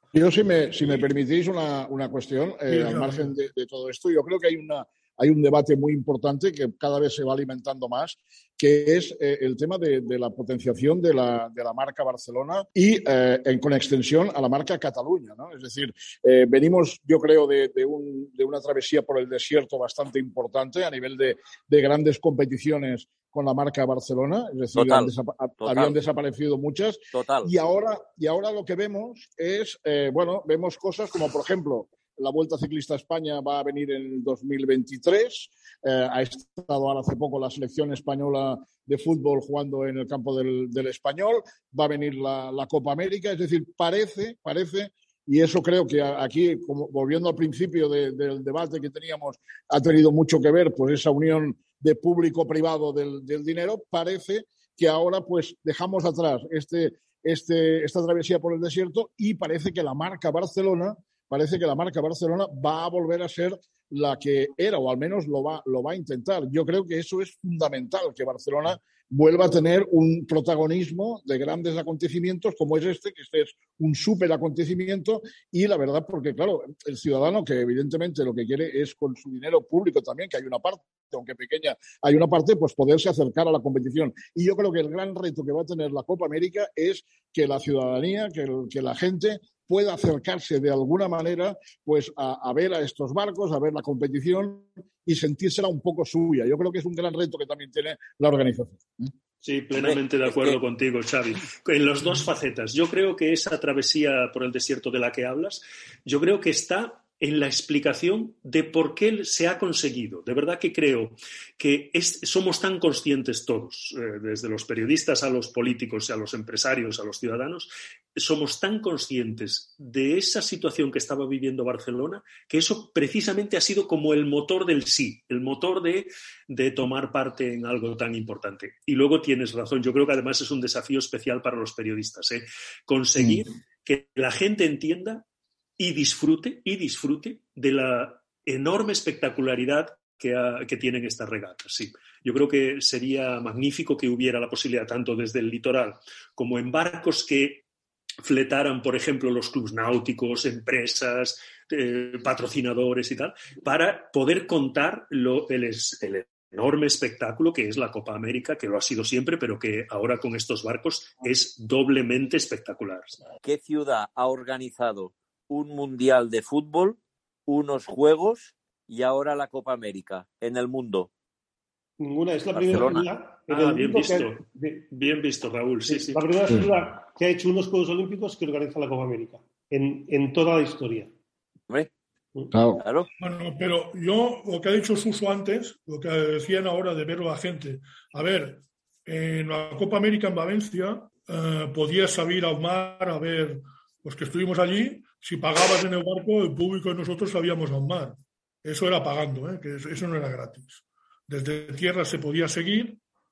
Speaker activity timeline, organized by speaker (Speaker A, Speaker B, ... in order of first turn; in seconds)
Speaker A: 0.1-99.1, 182.5-182.8
Speaker B: 2.7-3.3, 183.2-203.0
Speaker C: 24.8-25.1, 25.6-25.9, 27.1-27.5, 99.8-100.6, 163.4-171.1, 172.5-173.1, 182.8-183.1
Speaker D: 99.4-135.2, 135.8-147.6, 148.2-163.2, 173.5-176.2
Speaker E: 172.0-174.9, 175.9-181.1